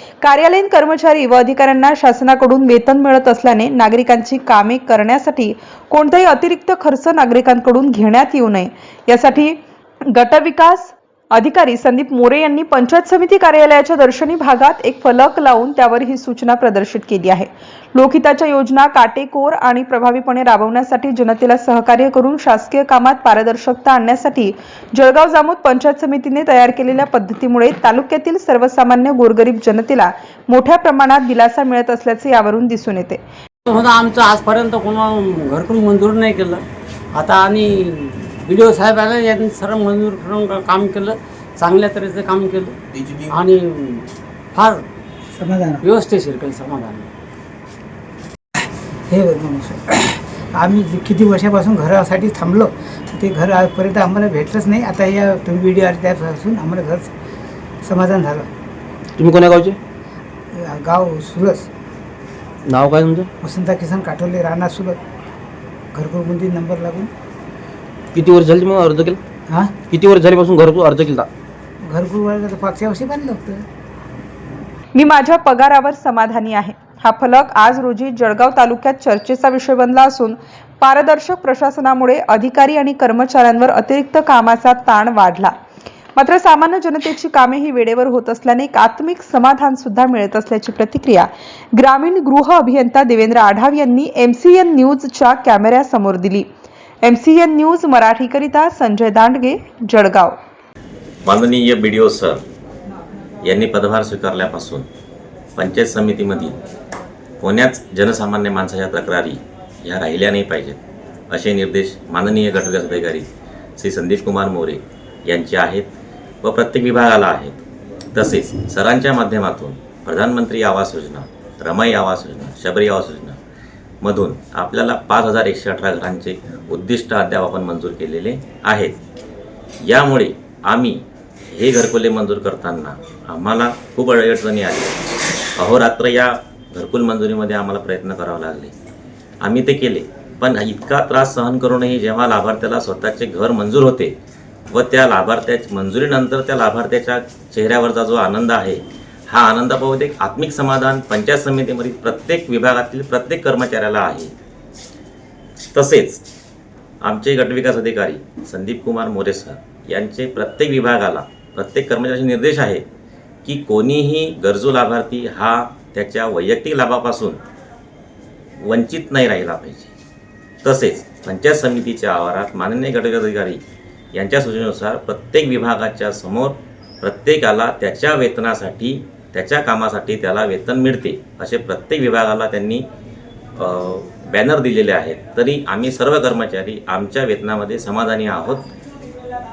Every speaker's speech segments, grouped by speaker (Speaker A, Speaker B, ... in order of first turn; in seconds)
Speaker A: 0.2-33.2, 75.0-85.5, 86.2-96.5, 97.0-100.4
Speaker B: 33.7-44.9, 45.8-47.1
Speaker C: 45.4-45.8, 49.1-57.1, 57.8-58.5, 60.5-61.7, 63.4-65.0, 65.9-67.1, 69.5-69.8, 71.9-73.7
Speaker D: 59.2-59.8, 62.7-63.3, 68.1-69.2, 69.9-71.3
Speaker E: 101.2-102.4, 103.4-104.9, 105.6-106.6, 107.4-113.3, 113.8-115.9, 116.4-117.6, 118.1-123.4, 124.0-129.0, 129.8-134.9, 135.6-138.7, 139.4-144.2, 144.7-154.3, 155.7-156.2, 157.0-162.8, 163.4-167.4, 168.6-169.9, 170.6-173.6, 174.1-182.9, 183.6-188.7